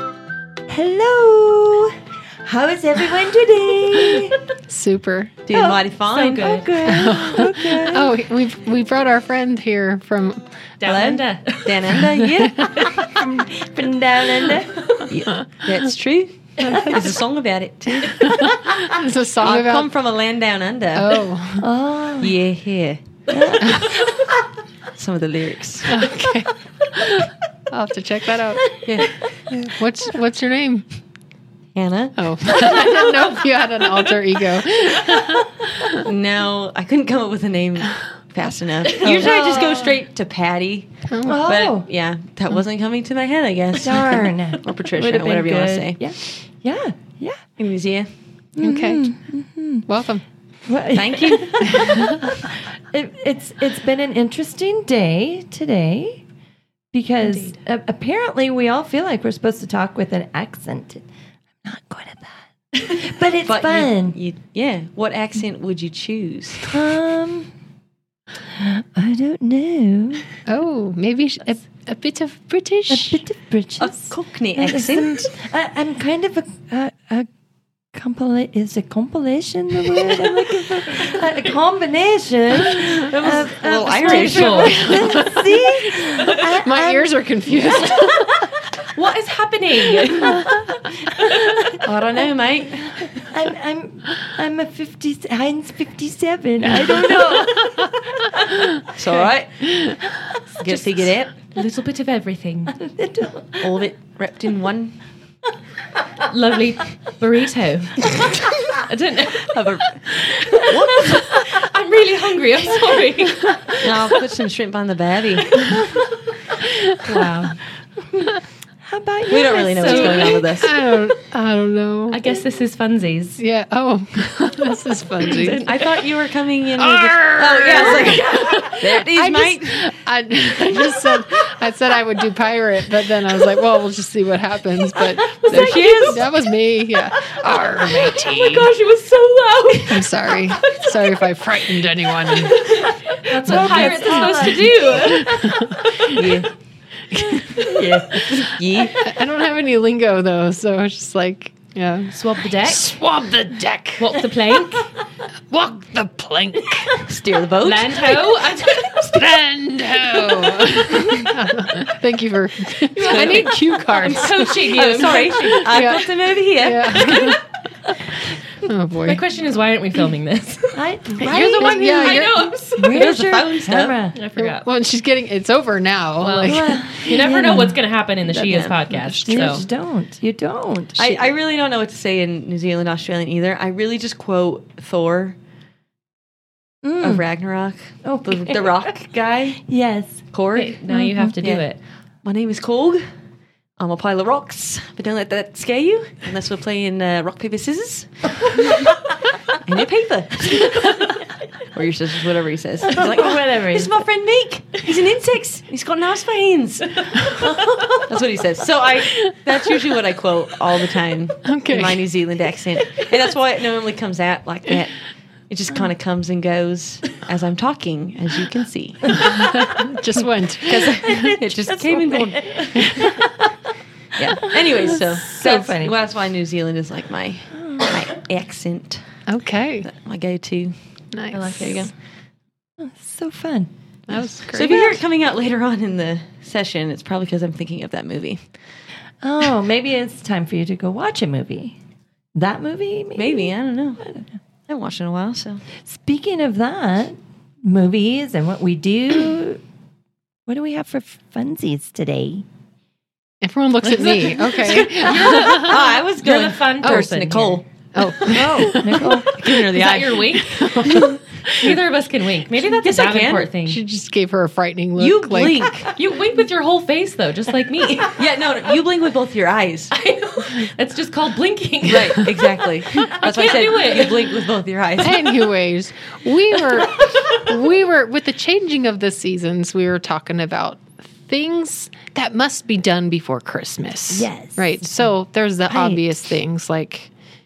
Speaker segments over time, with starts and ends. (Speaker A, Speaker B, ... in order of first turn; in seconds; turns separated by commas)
Speaker A: 0.7-4.4, Speaker B: 4.7-5.3, Speaker C: 5.5-6.5, Speaker A: 5.5-5.8, Speaker D: 6.1-6.8, Speaker A: 6.3-8.2, Speaker B: 6.8-10.5, Speaker D: 10.8-12.0, Speaker C: 10.8-12.8, Speaker B: 12.4-12.9, Speaker A: 12.9-14.8, Speaker C: 15.1-18.5, Speaker A: 16.6-17.1, Speaker B: 18.2-19.9, Speaker C: 19.4-21.2, Speaker B: 20.9-21.7, Speaker A: 21.6-22.4, Speaker C: 22.2-23.2, Speaker A: 23.3-23.9, Speaker C: 24.9-26.1, Speaker B: 25.9-28.8, Speaker C: 28.8-29.7, Speaker B: 29.6-30.9, Speaker C: 31.7-32.5, Speaker B: 32.2-36.0, Speaker C: 36.0-46.1, Speaker A: 39.0-40.0, Speaker B: 41.1-41.5, Speaker A: 41.2-41.9, Speaker A: 43.7-47.4, Speaker C: 47.6-48.1, Speaker A: 48.6-49.9, Speaker B: 48.6-49.1, Speaker B: 49.9-50.2, Speaker A: 50.6-56.2, Speaker C: 50.9-52.1, Speaker B: 51.8-52.0, Speaker A: 56.9-61.0, Speaker D: 57.2-57.6, Speaker A: 61.6-64.2, Speaker C: 63.4-66.8, Speaker A: 66.7-67.5, Speaker A: 68.4-70.2, Speaker B: 70.5-73.2, Speaker A: 72.9-77.3, Speaker C: 73.8-75.3, Speaker A: 77.9-87.2, Speaker C: 82.8-85.2, Speaker D: 83.9-86.4, Speaker B: 86.6-88.2, Speaker D: 88.8-90.5, Speaker A: 90.0-90.8, Speaker C: 91.8-93.1, Speaker A: 93.0-98.0, Speaker C: 97.0-97.6, Speaker C: 98.9-100.0, Speaker D: 100.5-102.8, Speaker C: 100.6-101.4, Speaker A: 102.7-103.9, Speaker C: 103.6-105.0, Speaker D: 106.2-109.5, Speaker C: 109.5-111.4, Speaker D: 110.2-113.9, Speaker C: 113.8-115.8, Speaker D: 117.1-117.6, Speaker A: 118.8-120.4, Speaker C: 119.3-120.8, Speaker D: 119.7-120.4, Speaker B: 120.5-122.2, Speaker D: 122.1-123.4, Speaker B: 123.4-125.7, Speaker C: 125.3-129.9, Speaker D: 125.3-125.9, Speaker B: 126.8-138.7, Speaker D: 128.0-128.7, Speaker C: 130.6-131.2, Speaker C: 135.1-136.3, Speaker D: 135.5-136.1, Speaker C: 137.8-140.0, Speaker D: 138.4-141.2, Speaker B: 139.9-142.6, Speaker D: 142.3-146.2, Speaker A: 143.3-145.2, Speaker C: 143.5-144.6, Speaker B: 144.8-146.1, Speaker C: 146.1-146.5, Speaker B: 147.2-148.2, Speaker D: 147.5-147.8, Speaker C: 147.6-149.0, Speaker A: 147.7-148.2, Speaker B: 148.8-154.2, Speaker D: 152.1-152.9, Speaker D: 154.0-154.9, Speaker B: 155.5-157.1, Speaker C: 157.0-158.2, Speaker D: 157.6-159.2, Speaker B: 158.9-166.1, Speaker D: 162.9-165.8, Speaker C: 163.0-167.4, Speaker B: 166.6-167.4, Speaker B: 168.7-169.2, Speaker D: 169.0-173.1, Speaker A: 170.7-172.1, Speaker B: 171.2-172.6, Speaker C: 171.7-172.2, Speaker A: 172.7-174.2, Speaker C: 172.9-174.0, Speaker D: 174.1-174.7, Speaker B: 174.3-177.2, Speaker D: 176.2-179.6, Speaker A: 176.4-177.8, Speaker C: 178.3-178.8, Speaker B: 178.9-179.6, Speaker A: 179.2-181.1, Speaker C: 180.9-185.4, Speaker A: 186.8-187.3, Speaker C: 187.0-189.6, Speaker A: 188.0-188.9, Speaker A: 189.6-190.2, Speaker C: 190.3-190.8, Speaker D: 190.5-191.8, Speaker A: 190.9-191.4, Speaker C: 191.4-191.7, Speaker C: 192.2-193.0, Speaker C: 193.8-198.8, Speaker C: 199.6-201.1, Speaker C: 201.7-215.0, Speaker A: 202.8-204.1, Speaker B: 211.4-212.1, Speaker C: 215.5-219.2, Speaker B: 219.3-221.4, Speaker C: 220.7-223.3, Speaker A: 221.1-223.4, Speaker C: 224.1-229.0, Speaker A: 224.6-225.9, Speaker A: 227.5-227.9, Speaker B: 229.3-229.9, Speaker C: 229.8-230.8, Speaker B: 231.1-231.8, Speaker D: 231.3-231.9, Speaker C: 231.6-231.9, Speaker A: 232.8-233.7, Speaker B: 234.1-234.9, Speaker C: 234.5-238.5, Speaker A: 239.2-241.8, Speaker A: 242.3-244.3, Speaker C: 243.1-244.1, Speaker C: 244.7-245.6, Speaker A: 245.8-249.6, Speaker A: 250.4-252.4, Speaker B: 253.4-255.8, Speaker D: 253.8-257.6, Speaker C: 254.4-257.6, Speaker B: 256.8-257.1, Speaker B: 257.9-259.2, Speaker C: 258.2-261.2, Speaker A: 258.3-259.3, Speaker D: 259.7-263.8, Speaker B: 260.6-261.1, Speaker C: 262.8-263.5, Speaker B: 263.6-265.7, Speaker C: 264.9-265.9, Speaker D: 265.9-268.2, Speaker C: 268.1-269.9, Speaker D: 269.9-272.3, Speaker C: 271.8-275.3, Speaker D: 273.0-274.2, Speaker B: 275.0-287.1, Speaker A: 284.1-285.1, Speaker A: 285.7-286.3